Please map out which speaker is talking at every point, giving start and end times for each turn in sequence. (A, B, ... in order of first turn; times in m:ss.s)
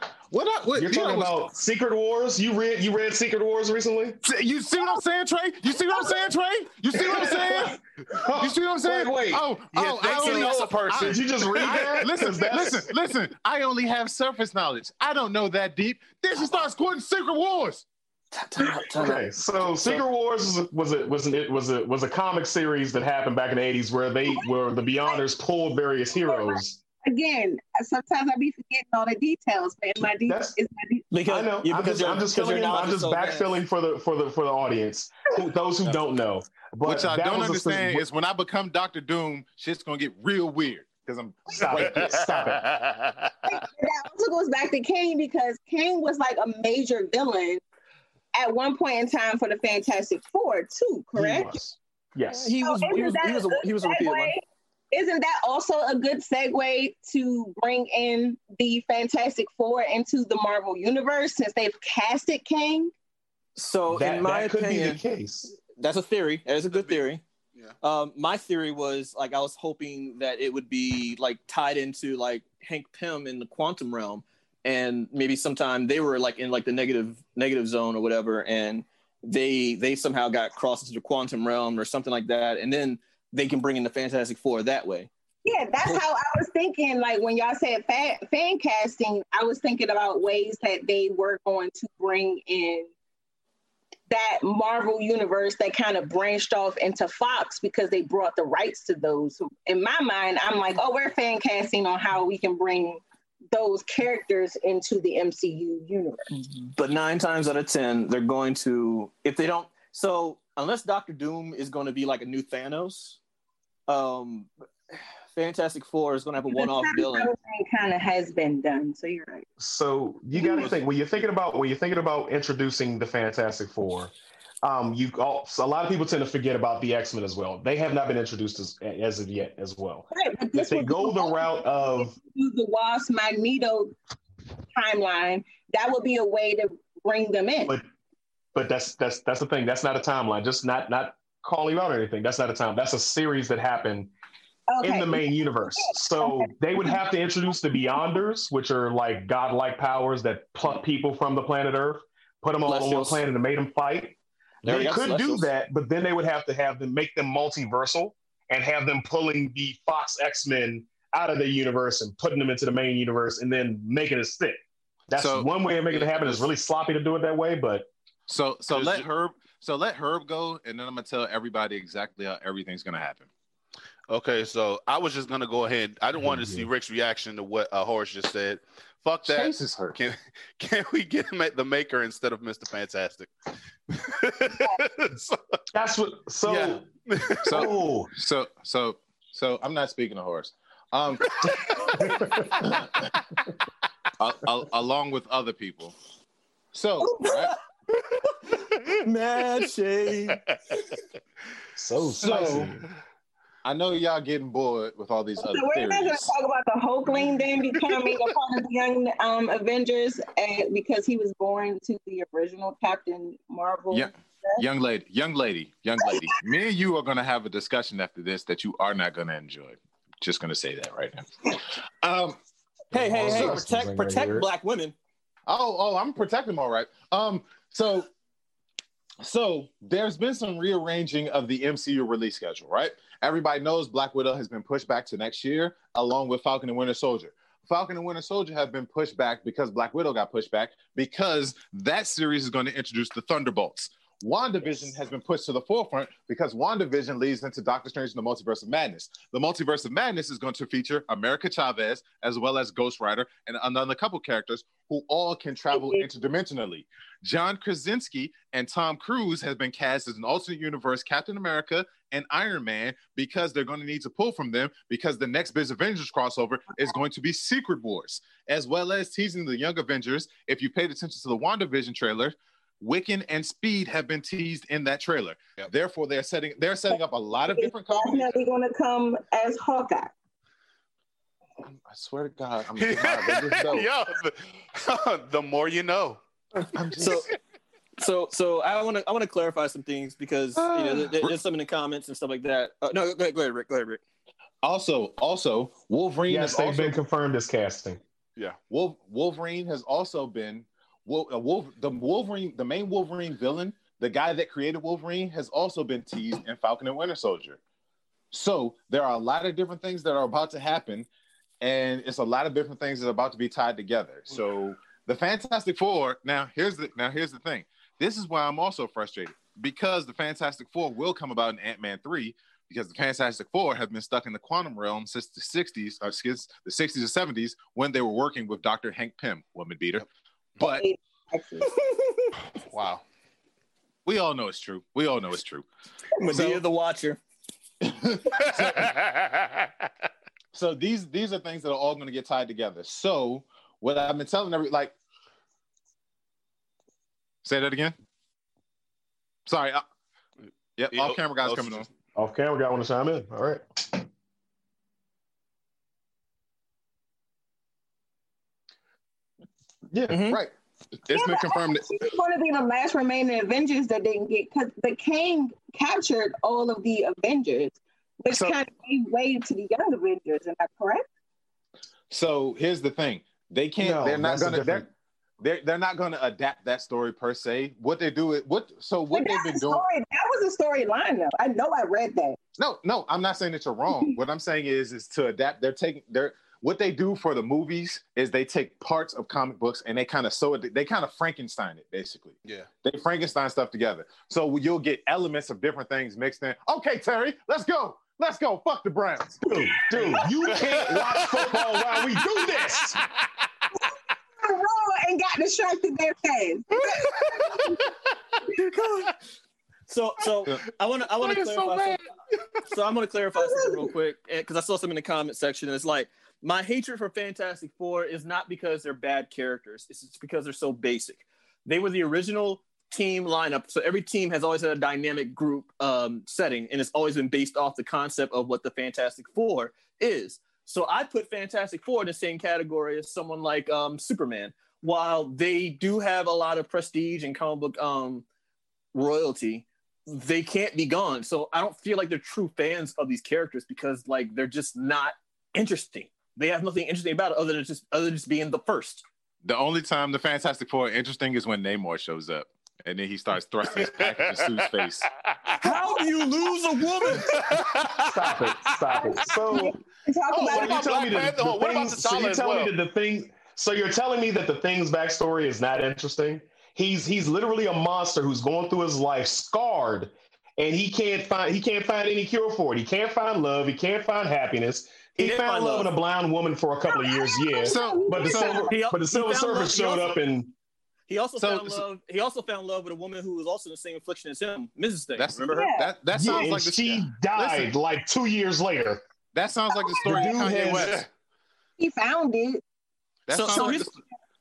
0:00.3-0:01.4 A
0:00.8-0:04.2 B
0:04.2-0:17.8 A
0:07.0-0:09.4 B
0:09.7-0:12.0 C
0:10.1-0:10.5 D
0:10.9-0:12.9 B
0:18.3-0:20.0 D
0:19.0-0:26.8 B
0:26.2-0:31.1 E
0:30.3-0:30.6 B
0:31.1-0:33.6 D
0:31.3-0:38.1 B
0:36.8-0:42.2 A
0:41.5-0:42.7 B
0:41.8-0:43.3 C
0:43.5-0:47.6 E
0:48.3-0:51.6 E
0:51.2-0:52.6 B
0:52.3-0:54.3 D
0:52.6-0:54.4 E
0:54.9-1:02.9 E
1:03.6-1:05.0 D
1:03.9-1:05.5 B
1:05.6-1:07.2 D
1:06.7-1:07.0 C
1:07.8-1:25.1 D
1:25.4-1:32.9 E
1:34.1-1:46.3 E
1:46.4-1:53.2 D
1:53.9-1:54.5 D
1:55.3-1:57.3 D
1:56.5-1:59.5 E
1:59.6-2:12.1 B
2:00.4-2:00.7 E
2:00.5-2:00.8 C
2:10.1-2:13.9 E
2:14.7-2:17.8 E
2:18.6-2:24.1 B
2:24.7-2:25.2 E
2:24.8-2:44.6 B
2:25.8-2:27.0 E
2:27.5-2:28.1 E
2:32.6-2:33.2 D
2:34.6-2:35.5 D
2:45.1-2:47.9 B
2:45.2-2:46.5 A
2:48.3-2:53.3 A
2:48.7-2:49.1 C
2:54.1-3:03.3 C
2:56.2-2:56.7 B
2:59.3-3:00.0 A
3:03.9-3:05.4 C
3:05.7-3:06.8 B
3:06.5-3:07.7 C
3:07.4-3:11.6 A
3:07.5-3:08.1 B
3:11.4-3:12.0 C
3:12.0-3:12.5 B
3:12.1-3:13.1 A
3:14.2-3:16.0 A
3:16.7-3:17.6 A
3:17.0-3:17.3 E
3:18.3-3:20.4 D
3:21.8-3:22.9 B
3:22.1-3:22.8 A
3:23.6-3:26.3 A
3:25.4-3:34.6 E
3:33.9-3:42.4 A
3:42.9-3:44.5 B
3:42.9-3:45.0 D
3:43.2-3:43.6 A
3:45.5-3:48.1 A
3:49.2-4:38.4 A
4:15.7-4:16.1 E
4:37.5-4:40.1 E
4:41.7-4:43.9 A
4:42.8-4:46.2 C
4:46.6-4:47.3 D
4:46.7-4:47.4 A
4:48.0-4:54.0 D
4:50.6-4:51.4 A
4:54.6-4:57.0 A
4:56.3-4:58.0 B
4:58.7-5:07.6 A
5:08.3-5:11.1 A
5:11.6-5:30.1 A
5:30.6-5:30.9 A
5:30.6-5:31.8 E
5:31.7-5:32.3 D
5:32.6-5:33.0 C
5:34.0-5:35.7 A
5:36.2-5:37.2 D
5:36.3-5:36.6 A
5:37.8-5:38.9 A
5:38.4-5:39.8 C
5:40.5-5:45.0 A
5:47.4-5:48.0 A
5:49.5-5:49.8 A
5:50.8-5:51.9 A
5:50.9-5:51.9 C
5:52.2-5:54.1 B
5:59.9-6:00.2 B
6:00.1-6:01.9 A
6:00.1-6:00.4 D
6:01.1-6:11.1 E
6:08.3-6:08.6 A
6:12.1-6:14.9 A
6:13.8-6:14.9 B
6:15.4-6:19.9 A
6:19.1-6:22.4 E
6:22.6-6:39.4 A
6:39.4-6:43.0 B
6:40.5-6:41.6 C
6:44.4-6:47.8 E
6:48.5-6:49.2 D
6:49.9-6:52.0 D
6:50.4-6:52.0 A
6:52.7-7:18.2 D
6:53.4-6:53.9 E
7:18.9-7:29.0 D
7:29.4-7:35.1 A
7:33.7-7:34.7 C
7:35.2-7:35.7 C
7:35.6-7:37.6 D
7:37.3-7:38.1 C
7:38.1-7:39.8 B
7:39.0-7:40.9 E
7:40.3-7:42.7 C
7:40.4-8:00.5 B
7:55.2-7:55.9 D
7:56.9-7:58.7 E
7:57.7-7:58.7 A
7:58.6-8:00.2 D
8:01.1-8:05.7 D
8:01.4-8:01.9 A
8:05.2-8:07.7 A
8:05.5-8:05.9 E
8:06.1-8:09.0 B
8:09.3-8:11.0 A
8:09.7-8:10.3 E
8:10.0-8:11.0 B
8:10.5-8:11.1 C
8:11.8-8:12.6 E
8:13.3-8:14.0 A
8:13.3-8:14.0 D
8:13.5-8:13.8 E